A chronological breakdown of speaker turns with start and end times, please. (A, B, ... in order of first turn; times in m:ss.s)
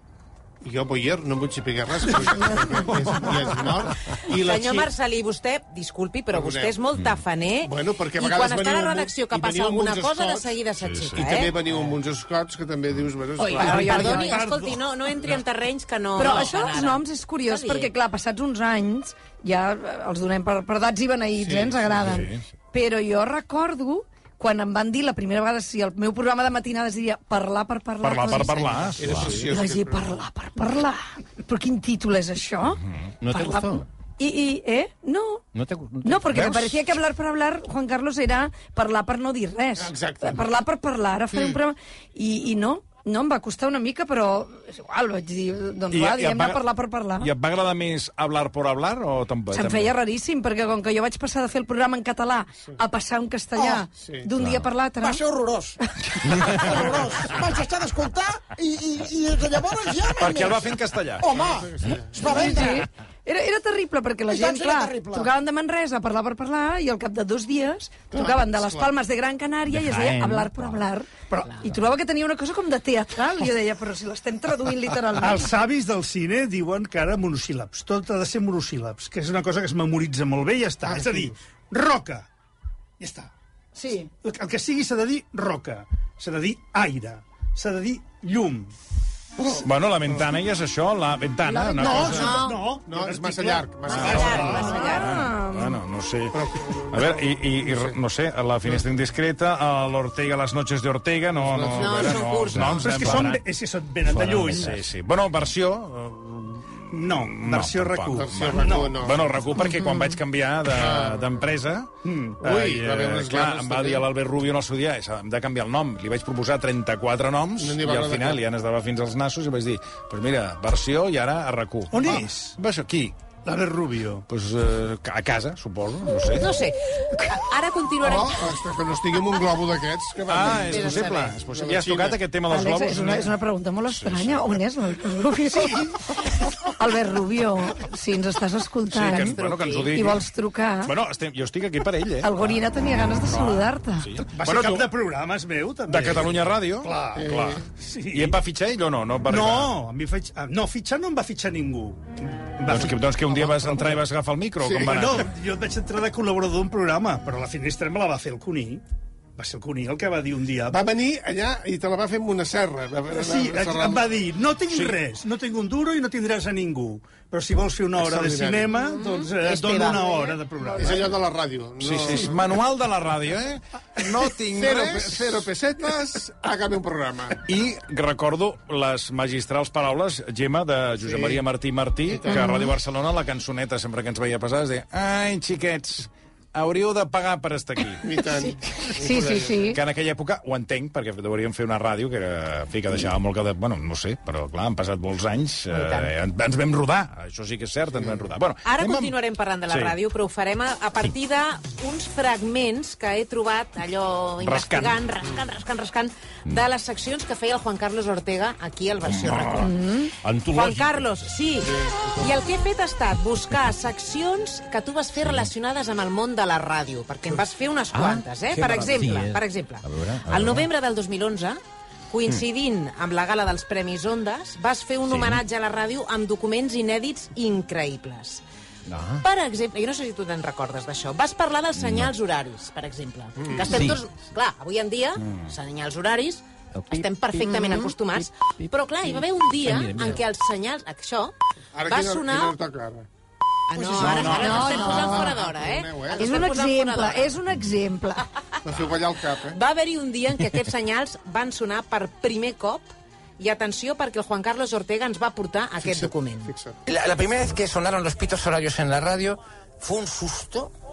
0:00.6-0:04.9 A
0:02.1-0:03.6 B
0:04.3-0:11.6 C
0:06.3-0:06.8 A
0:07.6-0:10.6 A
0:11.1-0:14.4 A
0:13.4-0:17.9 C
0:13.4-0:14.8 B
0:16.2-0:35.4 D
0:16.2-0:16.5 B
0:21.4-0:21.9 A
0:22.0-0:22.4 E
0:28.0-0:29.5 E
0:29.0-0:30.2 A
0:33.2-0:33.9 F
0:35.5-0:36.8 F
0:36.0-0:47.3 D
0:39.8-0:40.5 A
0:41.3-0:41.6 A
0:45.9-0:46.6 E
0:47.2-0:49.9 E
0:49.5-0:55.2 D
0:53.6-0:53.9 G
0:53.9-0:54.3 A
0:55.0-1:02.8 G
1:00.2-1:01.3 E
1:01.3-1:02.4 A
1:02.2-1:15.5 D
1:04.3-1:05.3 G
1:08.1-1:08.9 A
1:09.7-1:10.8 F
1:11.3-1:11.6 B
1:15.2-1:22.2 B
1:21.0-1:21.3 A
1:23.0-1:23.3 B
1:23.8-1:24.1 D
1:24.2-1:28.7 B
1:29.4-1:29.6 A
1:29.6-1:32.5 E
1:31.7-1:32.2 D
1:31.8-1:33.7 B
1:31.8-1:34.8 A
1:32.0-1:32.6 C
1:33.9-1:35.1 C
1:33.9-1:36.4 E
1:34.2-1:34.6 B
1:34.5-1:35.8 D
1:36.3-1:38.0 A
1:36.9-1:43.4 E
1:41.3-1:42.6 A
1:41.7-1:43.0 C
1:42.6-1:44.8 B
1:44.1-2:03.2 E
1:44.2-1:44.7 F
1:46.9-1:48.9 B
1:48.1-1:49.6 A
1:50.7-1:51.4 A
1:52.0-1:52.4 B
1:52.4-1:54.1 A
1:57.6-1:58.4 A
2:01.9-2:02.6 B
2:03.4-2:04.2 B
2:04.3-2:06.5 E
2:06.3-2:08.5 C
2:08.0-2:12.2 A
2:10.3-2:13.3 E
2:10.5-2:11.4 C
2:12.5-2:15.9 D
2:13.9-2:14.4 E
2:16.8-2:19.4 D
2:18.9-2:20.2 E
2:19.0-2:20.1 C
2:19.9-2:20.9 D
2:20.8-2:22.6 E
2:22.2-2:24.2 D
2:23.3-2:24.9 E
2:24.3-2:27.2 B
2:25.9-2:29.7 E
2:27.2-2:27.6 A
2:27.8-2:28.3 B
2:29.3-2:34.0 B
2:32.6-2:35.3 E
2:34.6-2:35.0 A
2:34.9-2:38.8 B
2:39.4-2:40.8 B
2:40.7-2:44.2 A
2:43.1-2:51.1 B
2:44.7-2:45.0 E
2:48.0-2:48.8 A
2:49.0-2:50.4 C
2:50.8-2:52.6 A
2:51.8-2:55.5 E
2:54.5-2:57.4 A
2:57.5-3:08.1 E
3:01.0-3:01.4 A
3:02.0-3:02.6 A
3:02.3-3:02.7 D
3:08.0-3:09.8 A
3:09.0-3:09.8 D
3:09.7-3:19.1 E
3:15.7-3:16.1 C
3:18.0-3:18.3 A
3:18.6-3:29.8 C
3:19.7-3:19.9 E
3:24.4-3:25.0 E
3:29.1-3:29.6 F
3:29.6-3:30.1 D
3:30.2-3:30.9 F
3:30.5-3:41.6 C
3:31.7-3:32.3 A
3:35.2-3:35.5 F
3:37.9-3:40.7 F
3:42.1-3:48.4 C
3:45.0-3:45.4 F
3:48.9-3:49.2 F
3:49.2-4:01.3 C
3:51.8-3:52.1 F
3:53.4-3:53.9 A
3:53.7-3:54.0 F
3:56.7-3:57.9 F
3:57.5-3:57.8 D
3:59.0-4:00.2 F
4:01.7-4:03.0 A
4:01.8-4:02.6 C
4:03.7-4:07.3 C
4:03.9-4:06.3 A
4:04.0-4:04.7 E
4:04.0-4:05.3 D
4:06.2-4:08.2 D
4:08.6-4:09.6 A
4:09.5-4:16.5 C
4:15.8-4:16.8 A
4:16.9-4:20.7 H